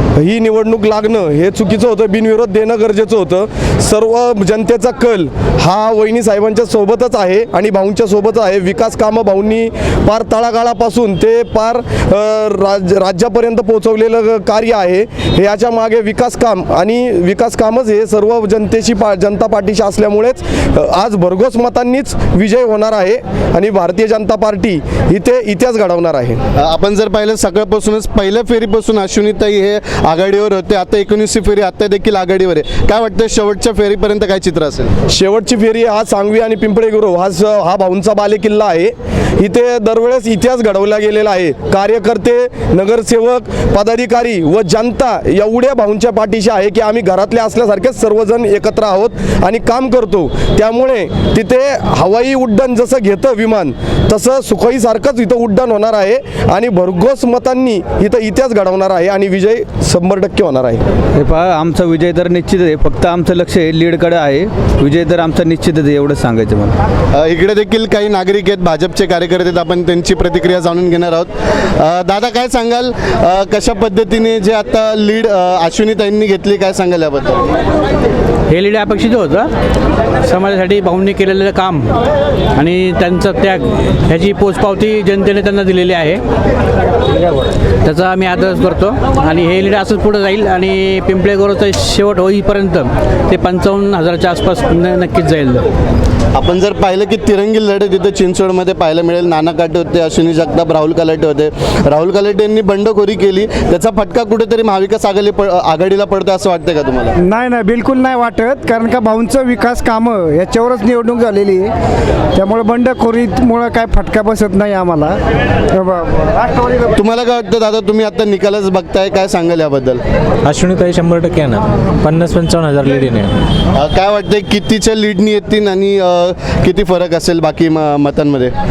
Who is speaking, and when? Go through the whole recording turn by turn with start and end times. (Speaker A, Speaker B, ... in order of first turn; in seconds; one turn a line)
Speaker A: 0.2-26.4
Speaker B: 26.6-34.9
Speaker A: 35.1-60.8
Speaker C: 61.2-66.7
Speaker B: 67.1-77.5
Speaker D: 78.5-79.5
Speaker D: 80.2-82.0
Speaker D: 82.6-86.2
Speaker D: 87.8-95.7
Speaker B: 96.3-107.1
Speaker E: 107.2-111.7
Speaker E: 112.3-115.2
Speaker E: 115.7-116.8
Speaker B: 117.0-120.0
Speaker F: 120.5-123.3
Speaker B: 123.7-128.5